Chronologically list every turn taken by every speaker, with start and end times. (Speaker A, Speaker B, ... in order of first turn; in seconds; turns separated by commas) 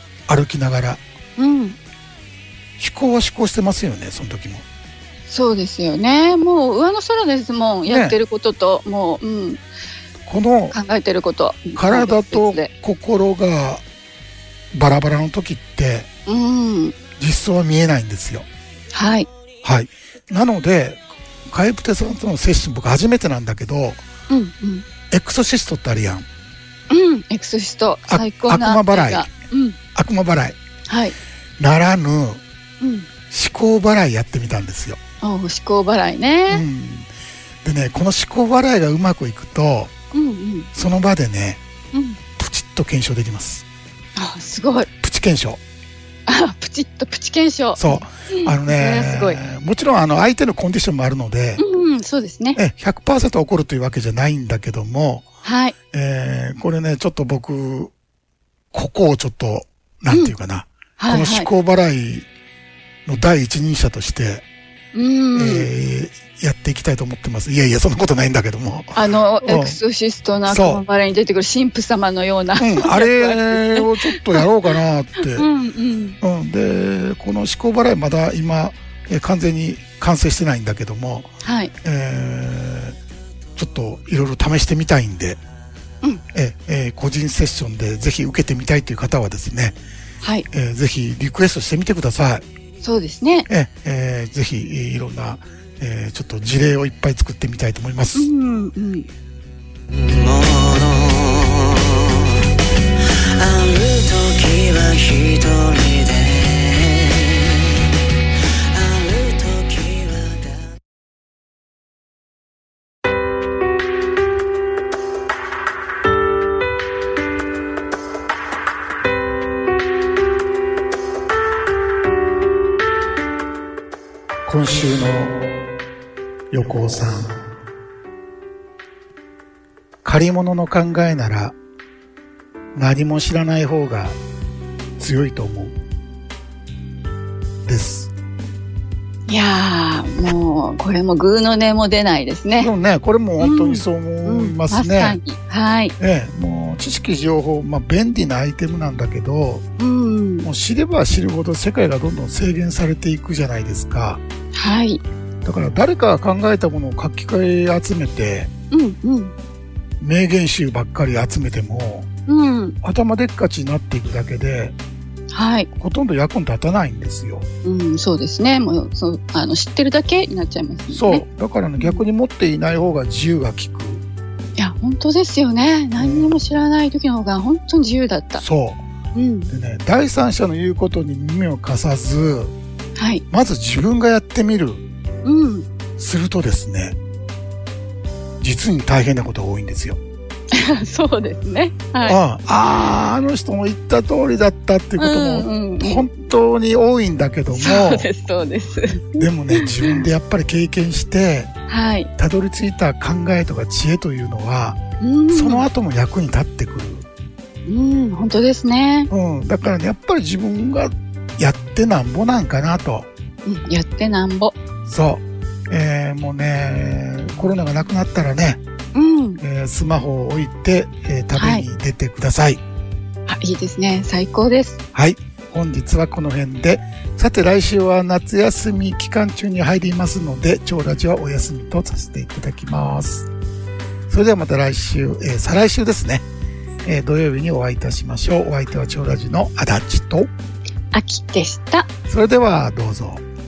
Speaker A: 0.3-1.0, Speaker B: 1.4-1.8, Speaker A: 2.8-4.6, Speaker B: 5.3-9.6, Speaker A: 7.8-8.2, Speaker A: 10.2-10.8, Speaker B: 10.7-12.7, Speaker A: 11.8-13.8, Speaker A: 14.7-16.1, Speaker B: 16.2-16.9, Speaker A: 17.2-18.5, Speaker B: 18.9-19.3, Speaker A: 19.6-24.0, Speaker B: 24.3-24.8, Speaker A: 25.1-26.3, Speaker B: 26.9-29.8, Speaker A: 28.1-29.3, Speaker A: 29.9-30.6, Speaker B: 30.9-31.1, Speaker A: 31.6-32.4, Speaker B: 32.8-33.1, Speaker A: 33.3-35.0, Speaker B: 35.2-36.6, Speaker A: 36.5-37.1, Speaker A: 37.6-39.9, Speaker B: 40.1-40.7, Speaker A: 40.7-41.6, Speaker B: 41.9-42.2, Speaker A: 42.4-43.6, Speaker B: 44.1-44.9, Speaker A: 45.0-45.6, Speaker B: 46.3-49.4, Speaker A: 47.8-51.6, Speaker B: 51.6-52.6, Speaker A: 52.5-55.3, Speaker B: 55.4-55.7, Speaker A: 55.9-57.9, Speaker A: 58.7-62.3, Speaker B: 61.0-61.5, Speaker A: 63.0-64.4, Speaker B: 64.9-65.7, Speaker A: 65.3-69.8, Speaker B: 69.0-74.5, Speaker A: 70.5-70.8, Speaker A: 72.6-75.5, Speaker B: 75.2-76.2, Speaker A: 76.2-83.0, Speaker B: 81.4-81.7, Speaker A: 83.5-85.4, Speaker A: 86.3-89.8, Speaker A: 90.5-92.4, Speaker B: 92.8-93.5, Speaker A: 93.5-98.3, Speaker B: 98.1-99.1, Speaker C: 99.9-102.5, Speaker C: 103.3-107.9, Speaker C: 108.7-110.8, Speaker A: 124.5-125.5, Speaker A: 126.5-127.4, Speaker A: 130.0-131.5, Speaker A: 132.7-134.2, Speaker A: 135.0-135.8, Speaker A: 137.6-138.1, Speaker B: 139.3-142.7, Speaker A: 142.6-145.2, Speaker B: 143.4-145.9, Speaker A: 146.0-149.6, Speaker B: 149.8-150.5, Speaker A: 150.4-154.2, Speaker B: 154.5-155.0, Speaker A: 155.4-158.5, Speaker B: 158.7-159.3, Speaker A: 160.0-162.1, Speaker B: 162.3-162.8, Speaker A: 162.8-164.7, Speaker B: 165.3-165.7, Speaker A: 165.8-167.4, Speaker B: 167.6-171.2, Speaker A: 170.9-174.0, Speaker B: 171.8-172.0, Speaker B: 174.6-178.4, Speaker A: 176.0-176.3, Speaker A: 178.4-178.8, Speaker B: 179.1-179.5, Speaker A: 179.5-182.5, Speaker B: 183.0-183.2, Speaker A: 183.3-184.8, Speaker B: 185.2-185.7, Speaker A: 186.0-187.0, Speaker A: 188.4-190.0, Speaker B: 190.5-192.2, Speaker A: 192.0-198.1, Speaker B: 195.0-196.1, Speaker B: 197.5-200.1, Speaker A: 199.2-201.5, Speaker B: 201.7-202.1, Speaker A: 202.2-204.8, Speaker B: 205.0-205.7, Speaker A: 205.3-207.1, Speaker B: 207.7-209.1, Speaker A: 209.1-213.1, Speaker B: 213.4-214.6, Speaker A: 214.8-218.6, Speaker B: 218.9-219.4, Speaker A: 219.4-222.6, Speaker B: 221.3-221.7, Speaker B: 223.3-224.8, Speaker A: 224.9-233.3, Speaker A: 234.1-236.2, Speaker A: 236.8-240.3, Speaker B: 240.9-241.9, Speaker A: 242.1-243.2